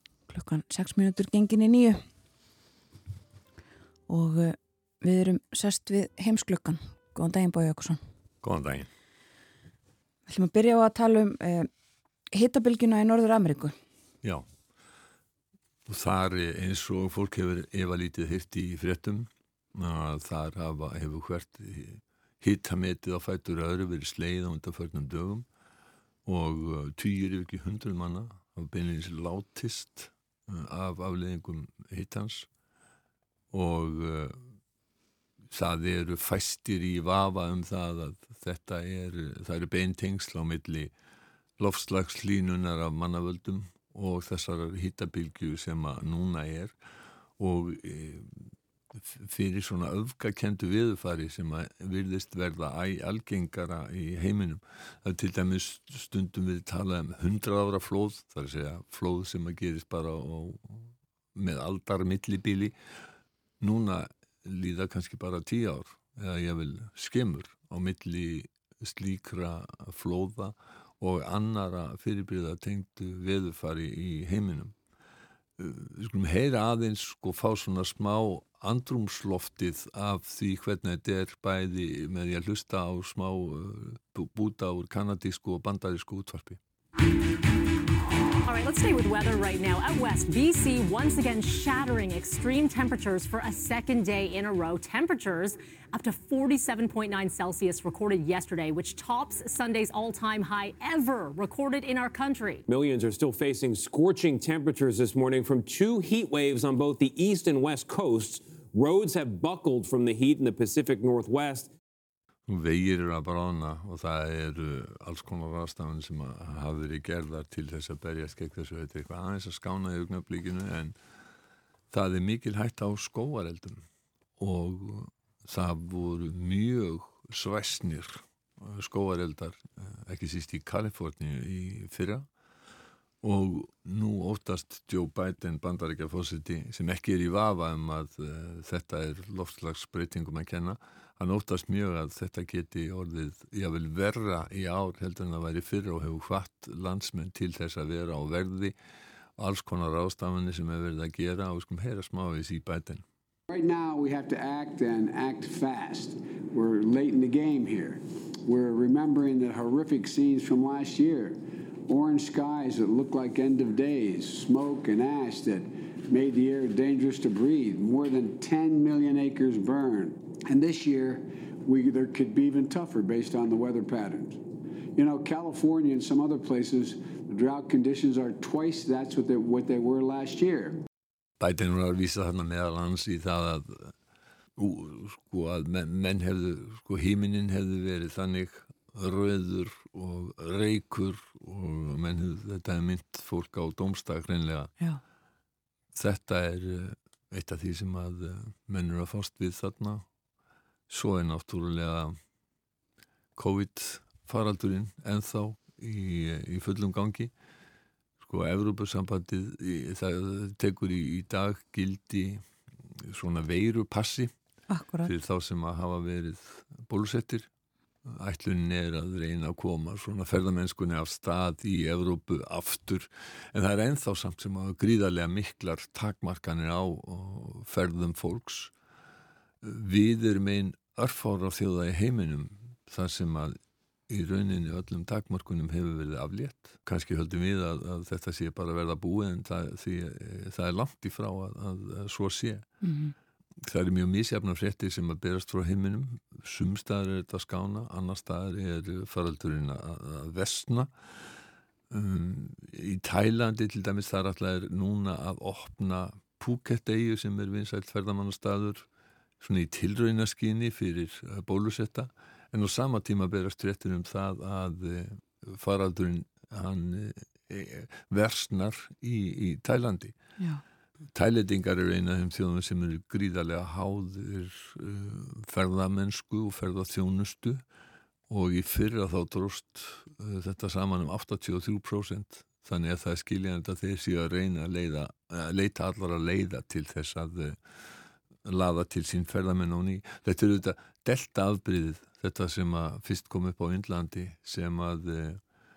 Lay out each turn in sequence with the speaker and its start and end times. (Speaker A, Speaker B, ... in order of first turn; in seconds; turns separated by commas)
Speaker A: 0.3-2.0, Speaker A: 4.1-8.0, Speaker B: 8.4-8.9, Speaker A: 10.3-11.7, Speaker A: 12.3-13.7, Speaker B: 15.9-25.5, Speaker B: 26.3-32.5, Speaker B: 33.5-34.4, Speaker B: 35.5-40.9, Speaker B: 41.6-46.7, Speaker B: 47.4-62.7, Speaker B: 63.6-74.7, Speaker B: 75.6-86.6, Speaker C: 88.5-102.7, Speaker D: 102.7-111.7, Speaker B: 112.5-121.0, Speaker B: 121.9-123.8, Speaker B: 124.4-132.2, Speaker B: 133.2-148.7, Speaker B: 149.4-153.0, Speaker E: 153.5-174.4, Speaker E: 175.0-180.8, Speaker B: 181.4-183.9, Speaker B: 184.6-194.7, Speaker B: 195.9-200.0, Speaker B: 200.9-202.1, Speaker B: 203.4-207.3, Speaker B: 208.2-212.4, Speaker B: 213.0-214.3, Speaker A: 214.7-215.1, Speaker B: 215.1-217.5, Speaker B: 218.1-228.7, Speaker B: 229.6-233.6, Speaker B: 234.1-242.7, Speaker A: 242.8-243.1, Speaker B: 243.6-250.9, Speaker B: 251.9-258.8, Speaker B: 259.4-270.1, Speaker B: 271.1-277.6, Speaker B: 278.3-287.6, Speaker B: 288.5-295.4